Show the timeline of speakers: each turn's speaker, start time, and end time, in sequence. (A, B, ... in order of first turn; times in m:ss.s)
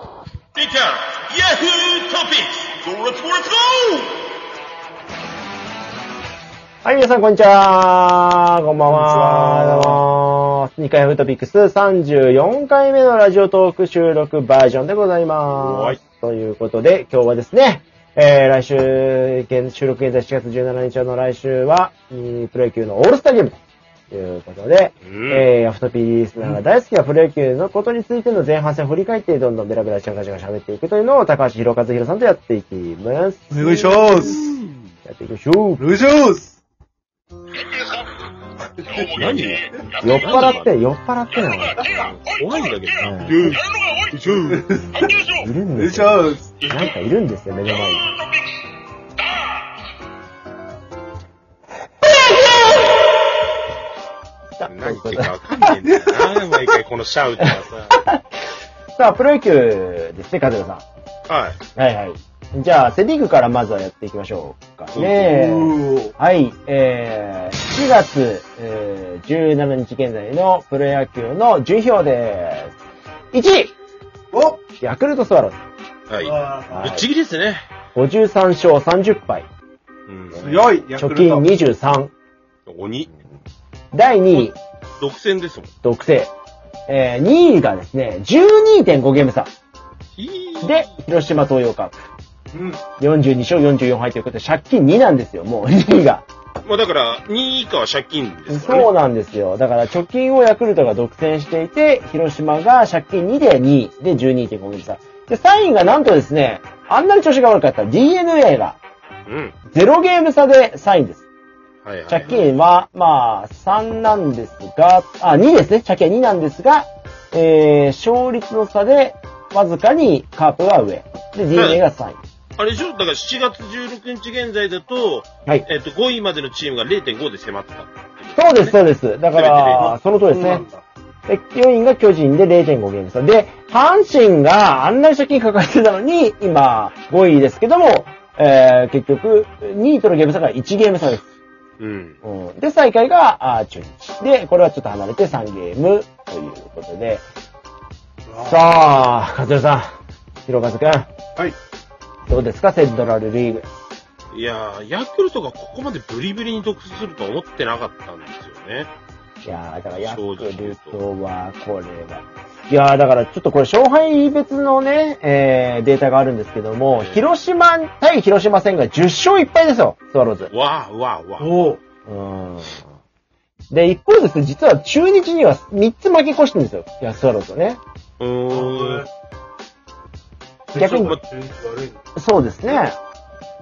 0:00.5-0:04.2 A
0:06.8-0:23.6 B
0:08.8-0:10.0 C
0:15.5-0:16.0 A
0:24.1-0:34.5 B
0:25.0-0:25.5 A
0:33.5-0:34.5 C
0:35.0-0:35.8 B
0:35.8-0:36.6 C
0:38.8-0:39.6 C
0:39.0-0:40.7 A
0:40.0-0:41.8 B
0:41.8-0:45.2 A
0:43.0-0:43.7 B
0:44.3-0:46.6 C
0:45.3-0:48.1 B
0:52.2-0:52.5 B
0:54.6-0:55.8 B
0:54.7-0:58.0 A
0:55.9-0:56.6 C
0:57.4-0:58.2 B
0:59.0-1:00.8 B
1:01.3-1:01.6 A
1:01.8-1:12.7 B
1:04.9-1:05.3 A
1:05.2-1:06.1 C
1:13.3-1:13.7 B
1:14.3-1:14.6 C
1:14.8-1:15.6 B
1:16.1-1:17.6 A
1:16.2-1:17.0 C
1:16.7-1:17.1 B
1:17.9-1:19.5 B
1:20.1-1:20.5 A
1:20.3-1:21.5 C
1:20.5-1:22.1 B
1:22.7-1:23.2 A
1:23.9-1:24.6 B
1:24.4-1:25.7 A
1:25.8-1:26.3 B
1:26.9-1:29.5 B
1:30.1-1:30.8 A
1:30.6-1:31.9 B
1:32.5-1:32.8 C
1:33.0-1:36.2 B
1:36.6-1:38.9 A
1:38.5-1:48.8 B
1:49.3-1:49.5 A
1:49.7-1:51.2 B
1:51.8-1:52.4 A
1:52.1-2:02.2 B
2:01.5-2:01.8 A
2:02.6-2:08.8 A
2:08.4-2:10.6 B
2:09.3-2:09.8 A
2:09.8-2:10.8 C
2:11.3-2:21.2 B
2:21.8-2:22.2 A
2:22.2-2:27.2 B
2:28.3-2:28.7 C
2:28.4-2:29.9 B
2:30.4-2:31.1 B
2:32.3-2:33.6 B
2:34.3-2:38.9 A
2:39.4-2:50.5 B
2:39.9-2:41.0 A
2:46.9-2:47.2 A
2:50.5-2:51.5 A
2:51.4-2:51.8 C
2:52.0-2:52.9 B
2:53.7-2:57.8 B
2:58.2-2:59.0 A
2:58.5-2:59.1 C
3:00.7-3:02.0 C
3:00.8-3:01.2 B
3:02.2-3:03.0 B